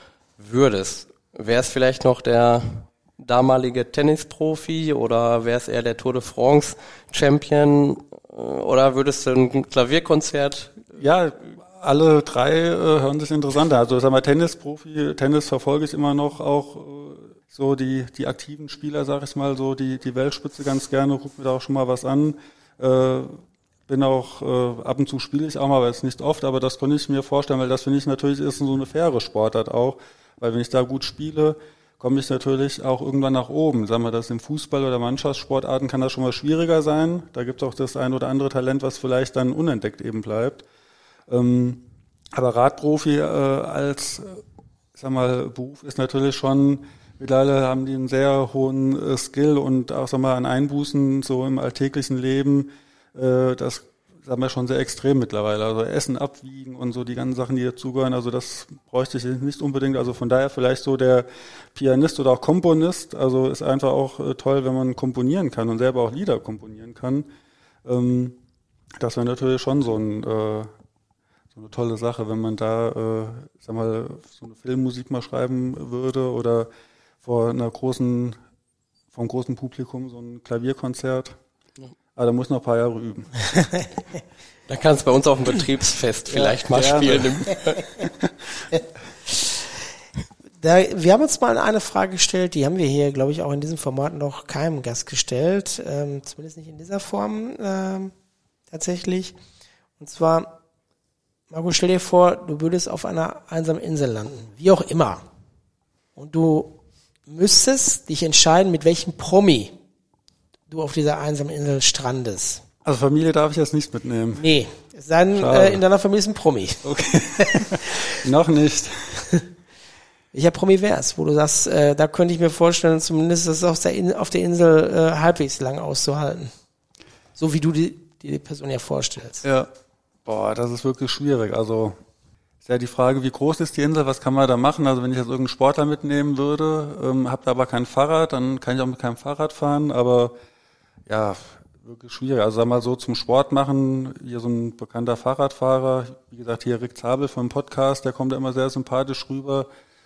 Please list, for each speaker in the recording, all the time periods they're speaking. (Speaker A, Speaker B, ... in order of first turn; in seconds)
Speaker A: 0.4-10.9, 84.7-87.9
Speaker B: 11.0-40.6, 41.3-44.4, 45.0-67.3, 67.8-68.4, 69.0-70.7, 71.5-76.7, 77.2-78.4, 79.1-81.4, 82.2-83.3, 86.7-87.4, 112.8-114.5, 115.3-115.8, 116.8-119.3, 129.4-129.7, 130.3-132.0, 132.7-140.3, 141.1-149.7
Speaker C: 89.3-89.7, 90.6-98.1, 98.7-99.3, 100.0-100.5, 101.5-105.2, 106.2-109.8, 110.7-112.6, 114.4-118.0, 120.3-126.5, 127.4-129.4